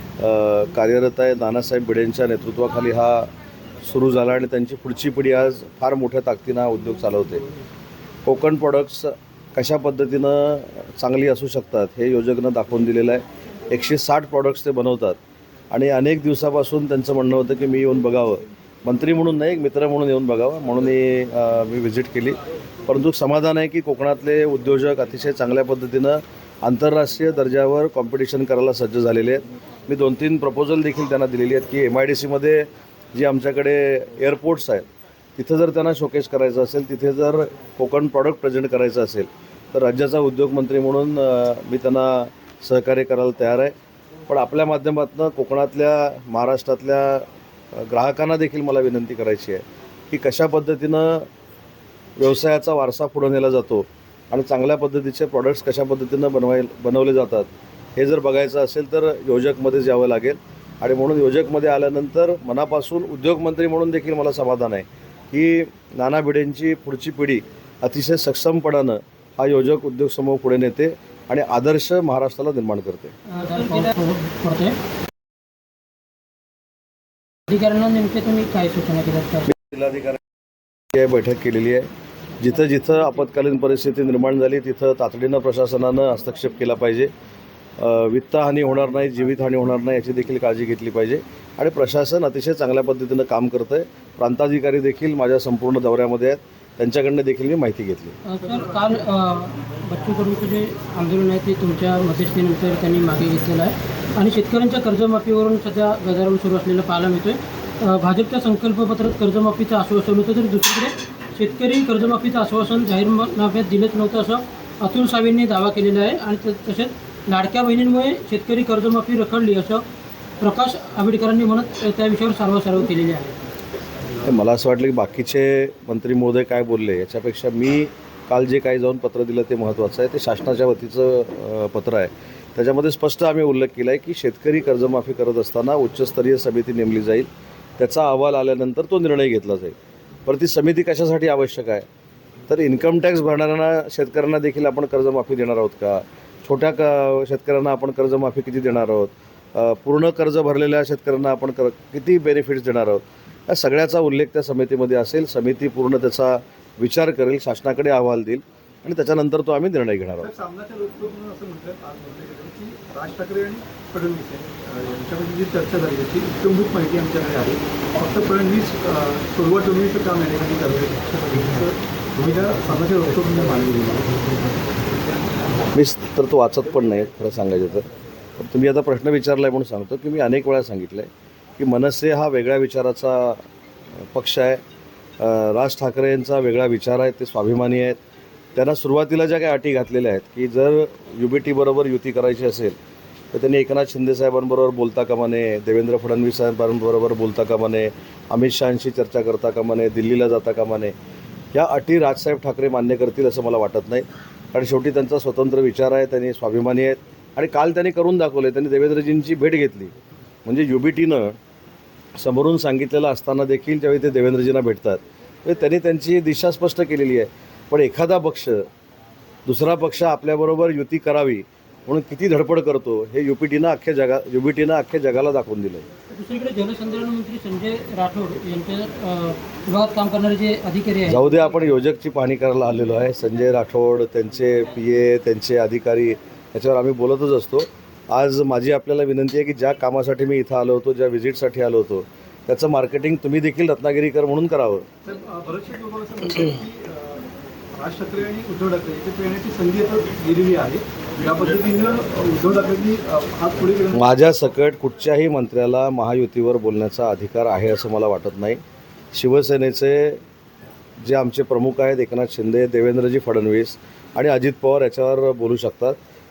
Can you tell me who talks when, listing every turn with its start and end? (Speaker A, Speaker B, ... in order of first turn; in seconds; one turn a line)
Speaker A: 0.2-3.3
Speaker A: 3.8-7.5
Speaker A: 8.3-15.2
Speaker A: 15.7-34.9
Speaker A: 35.4-43.7
Speaker A: 44.3-51.3
Speaker A: 52.2-73.2
Speaker B: 73.3-74.8
Speaker B: 77.5-79.5
Speaker A: 79.5-80.2
Speaker A: 80.9-81.9
Speaker A: 82.4-87.1
Speaker A: 87.8-98.2
Speaker B: 98.2-119.8
Speaker B: 120.4-123.3
Speaker A: 124.2-141.9
Speaker A: 142.5-160.3
Speaker C: 160.2-174.2
Speaker A: 175.7-177.8
Speaker A: 178.4-183.4
Speaker A: 184.1-184.6
Speaker A: 185.2-188.0
Speaker A: 188.6-192.8
Speaker A: 193.3-200.9
Speaker A: 201.5-209.9
Speaker A: 210.4-211.4
Speaker A: 212.2-218.7
Speaker A: 219.5-225.9
Speaker B: 226.1-231.3
Speaker A: 231.1-244.9
Speaker C: 245.1-254.0
Speaker A: 253.9-258.6
Speaker A: 259.1-260.2
Speaker A: 261.0-266.0